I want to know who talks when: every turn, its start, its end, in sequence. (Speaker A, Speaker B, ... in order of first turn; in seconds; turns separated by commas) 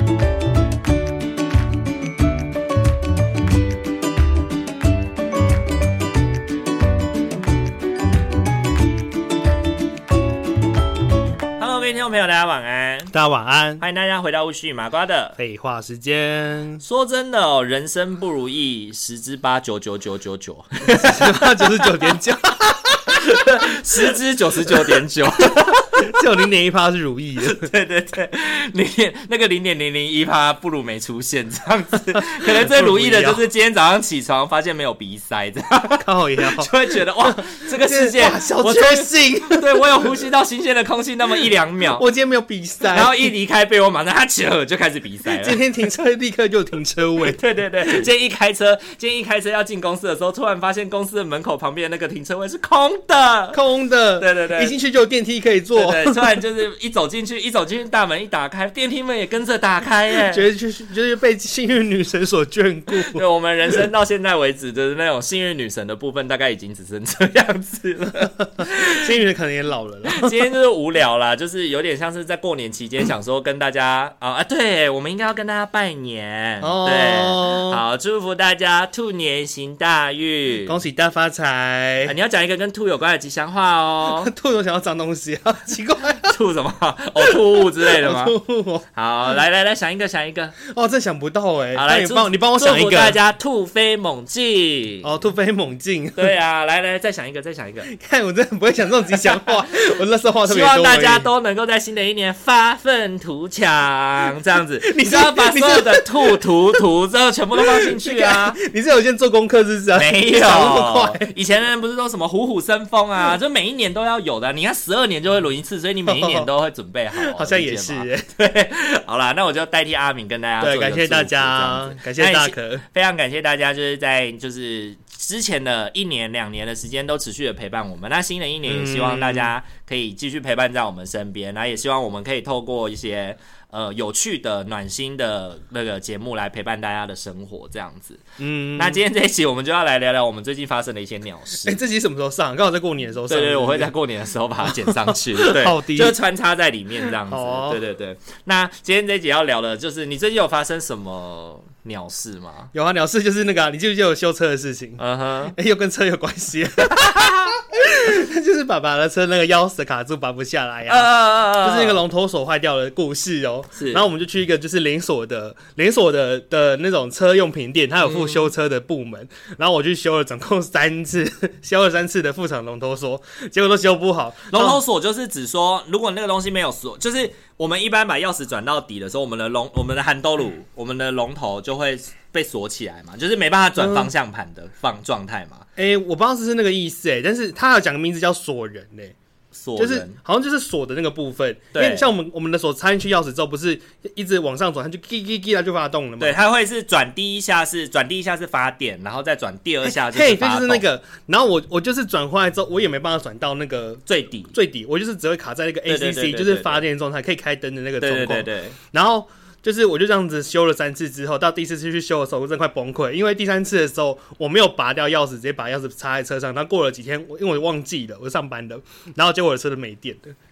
Speaker A: 11.6-13.1, Speaker B: 13.1-13.8, Speaker A: 13.8-15.3, Speaker B: 15.4-16.8, Speaker A: 16.8-21.9, Speaker B: 20.9-23.2, Speaker A: 23.1-26.2, Speaker B: 24.0-27.6, Speaker A: 27.4-42.0, Speaker B: 32.4-33.4, Speaker B: 36.0-36.7, Speaker B: 37.2-40.1, Speaker B: 41.9-43.3, Speaker A: 42.9-45.6, Speaker B: 45.3-47.4, Speaker A: 47.2-53.6, Speaker B: 53.5-56.3, Speaker A: 54.2-54.8, Speaker A: 55.8-60.4, Speaker B: 60.2-63.2, Speaker A: 63.0-69.1, Speaker B: 68.6-70.3, Speaker A: 70.1-80.8, Speaker B: 76.6-77.8, Speaker B: 80.7-82.1, Speaker A: 82.0-84.3, Speaker B: 84.0-86.3, Speaker A: 86.3-88.4, Speaker B: 87.2-88.8, Speaker A: 88.9-90.5, Speaker B: 90.6-93.2, Speaker A: 91.7-95.1, Speaker B: 95.0-96.3, Speaker A: 96.2-97.9, Speaker B: 97.9-101.3, Speaker A: 100.5-108.6, Speaker B: 104.8-106.5, Speaker B: 107.6-111.3, Speaker A: 110.0-138.2, Speaker B: 116.0-116.5, Speaker B: 117.1-118.3, Speaker B: 120.6-122.8, Speaker B: 128.7-129.5, Speaker B: 138.4-139.0, Speaker A: 138.8-141.8, Speaker B: 141.6-143.9, Speaker A: 143.3-152.7, Speaker B: 144.6-146.1, Speaker B: 147.3-147.8, Speaker B: 152.7-155.0, Speaker A: 155.0-155.5, Speaker B: 155.5-174.8, Speaker A: 156.8-157.5, Speaker A: 160.9-162.0, Speaker A: 163.7-164.0, Speaker A: 168.1-168.4, Speaker A: 174.5-185.7, Speaker B: 183.8-184.1, Speaker B: 185.8-189.1, Speaker A: 189.5-190.2, Speaker B: 189.8-196.4, Speaker A: 191.7-192.1, Speaker A: 196.2-200.8, Speaker B: 199.8-220.3, Speaker A: 204.1-204.5, Speaker A: 205.8-206.8, Speaker A: 208.0-208.8